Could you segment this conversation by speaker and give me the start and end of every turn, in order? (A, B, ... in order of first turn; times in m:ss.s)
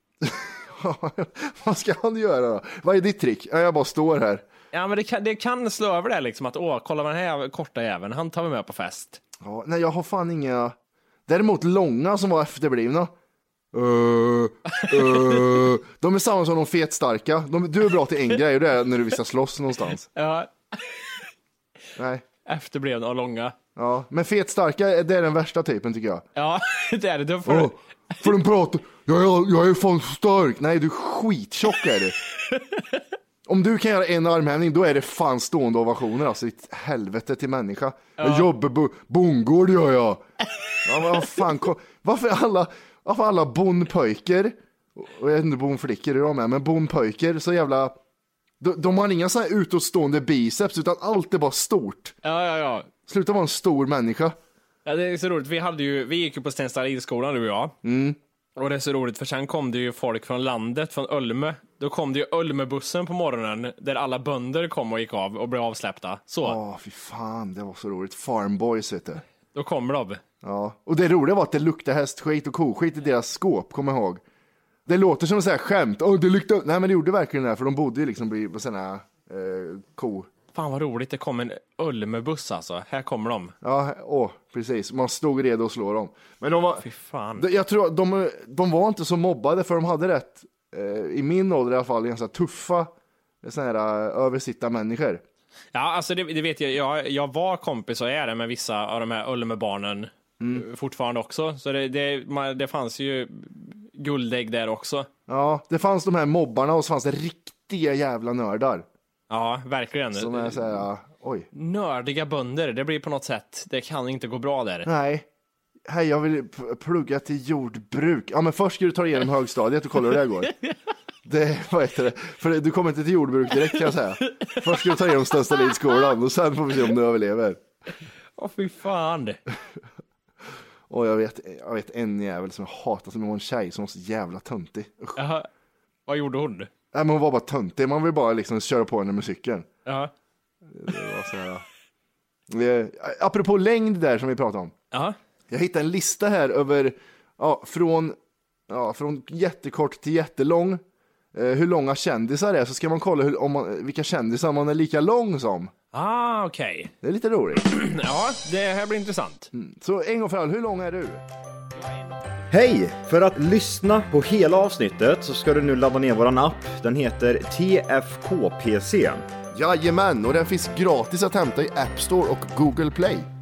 0:00.2-0:04.4 A
0:04.7-0:09.2 B
0:09.4-0:10.8 A
0:11.3-0:13.1 A
0:13.7-0:20.1 A
0:20.1-0:21.0 B
0:22.0-0:22.2 A
0:22.5-0:23.6 B
0:23.8-0:26.2 A
0:26.4-0:28.3 B
0:27.4-0:32.2 A
0:32.5-0:32.8 B
0:33.4-0:40.2 A
0:38.2-0:38.5 B
0:40.8-0:48.0 A
0:48.6-0:52.2 A
0:52.2-0:52.9 B
0:53.1-0:54.4 A
0:54.8-0:57.8 B
0:57.8-0:58.2 A
0:58.6-1:06.6 B
1:06.4-1:09.2 A
1:09.5-1:10.2 B
1:10.4-1:14.2 A
1:14.9-1:20.3 A
1:20.5-1:23.5 B
1:23.6-1:26.8 A
1:26.8-1:27.5 B
1:27.4-1:32.9 A
1:33.4-1:35.2 A
1:35.7-1:45.1 B
1:45.3-1:48.9 A
1:49.3-1:50.7 B
1:50.2-1:51.5 A
1:51.5-1:54.9 B
1:54.8-1:55.3 A
1:55.9-2:00.6 A
2:01.2-2:07.6 A
2:04.3-2:04.6 B
2:08.4-2:09.4 B
2:10.9-2:15.2 A
2:15.2-2:15.5 B
2:16.1-2:16.7 B
2:16.9-2:19.7 A
2:19.9-2:20.1 B
2:20.7-2:21.6 A
2:22.5-2:24.7 A
2:25.5-2:28.2 A
2:28.7-2:30.8 A
2:31.3-2:35.7 A
2:35.9-2:36.9 B
2:37.0-2:37.6 A
2:37.6-2:39.5 B
2:39.5-2:41.2 A
2:41.8-2:42.3 B
2:42.5-2:49.2 C
2:49.5-2:53.3 A